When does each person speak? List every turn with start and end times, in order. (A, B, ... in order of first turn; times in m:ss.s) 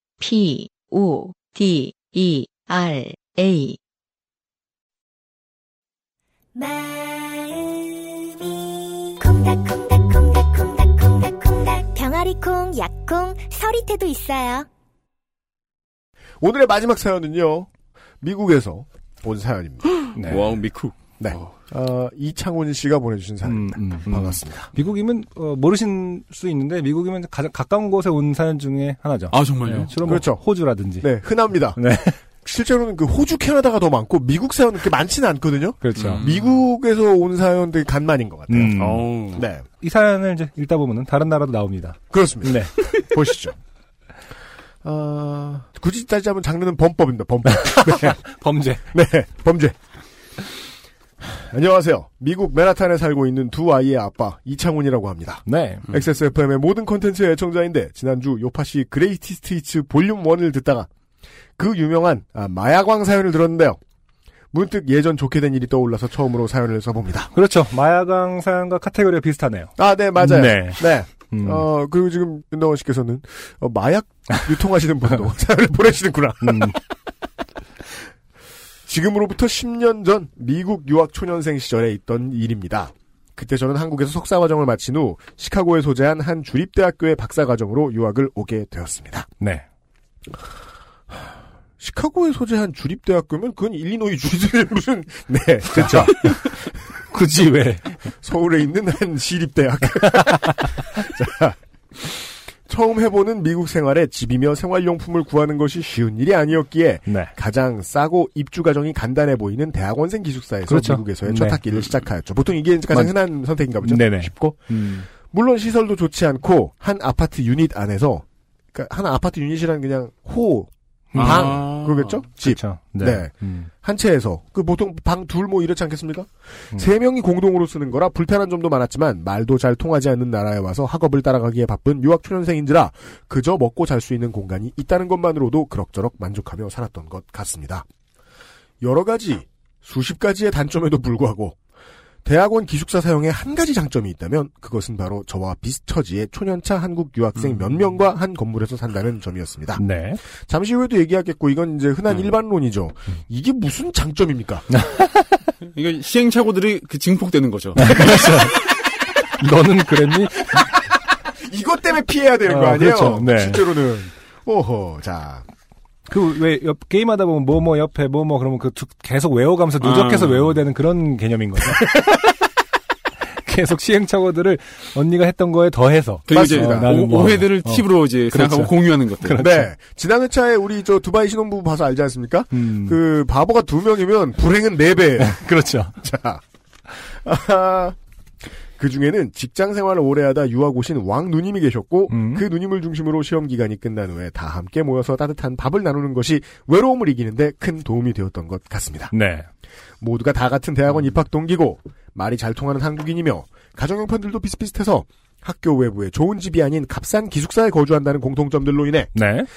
0:00.2-0:03.8 A
0:06.6-0:14.7 B
0:16.4-0:17.7 C
0:18.2-0:19.8 C
0:20.1-0:20.5 D
0:20.3-0:21.4 E
0:21.2-0:24.7 C
0:23.4-0:31.1 D
0:29.3-0:29.9 E
0:30.0-0:30.4 C
0:31.0-0:38.8 C
0:31.8-0:32.2 D
0:35.8-0:36.2 D
0:36.0-0:36.6 E
0:38.5-0:39.1 D
0:38.8-0:39.4 E
0:39.4-0:39.6 C
0:39.8-0:42.7 D
0:42.1-0:43.6 C
0:44.8-0:48.2 C
0:47.5-0:48.8 D
0:48.9-0:49.8 C
0:51.2-1:00.9 C
0:55.5-0:55.8 D
1:01.6-1:03.8 C
1:04.5-1:07.3 C
1:07.3-1:11.7 D
1:09.8-1:16.8 C
1:16.4-1:16.8 D
1:18.9-1:29.3 C
1:29.4-1:29.6 D
1:31.8-1:36.6 C
1:35.7-1:36.5 D
1:37.0-1:38.0 D
1:38.2-2:17.9 C
1:40.2-1:40.8 D
1:47.1-1:47.3 D
1:50.7-1:51.6 D
1:53.8-1:55.0 D
2:01.1-2:01.5 D
2:01.2-2:02.2 E
2:02.4-2:03.7 D
2:18.8-2:21.6 C
2:22.2-2:29.8 C
2:29.8-2:30.2 D
2:30.4-2:34.7 C
2:34.7-2:35.3 D
2:35.6-2:38.3 E
2:37.8-2:38.6 D
2:39.4-2:40.6 D
2:41.3-2:45.4 C
2:42.5-2:43.7 D
2:46.1-2:52.4 D
2:49.8-2:50.6 E
2:53.4-2:59.7 D
2:56.3-2:59.4 E
2:56.3-2:56.9 C
2:59.4-3:05.4 C
3:02.5-3:03.0 D
3:05.2-3:06.0 D
3:06.0-3:06.4 C
3:07.0-3:08.0 C
3:08.8-3:19.1 C
3:12.1-3:12.5 D
3:19.1-3:19.5 D
3:20.0-3:29.1 C
3:29.1-3:29.5 D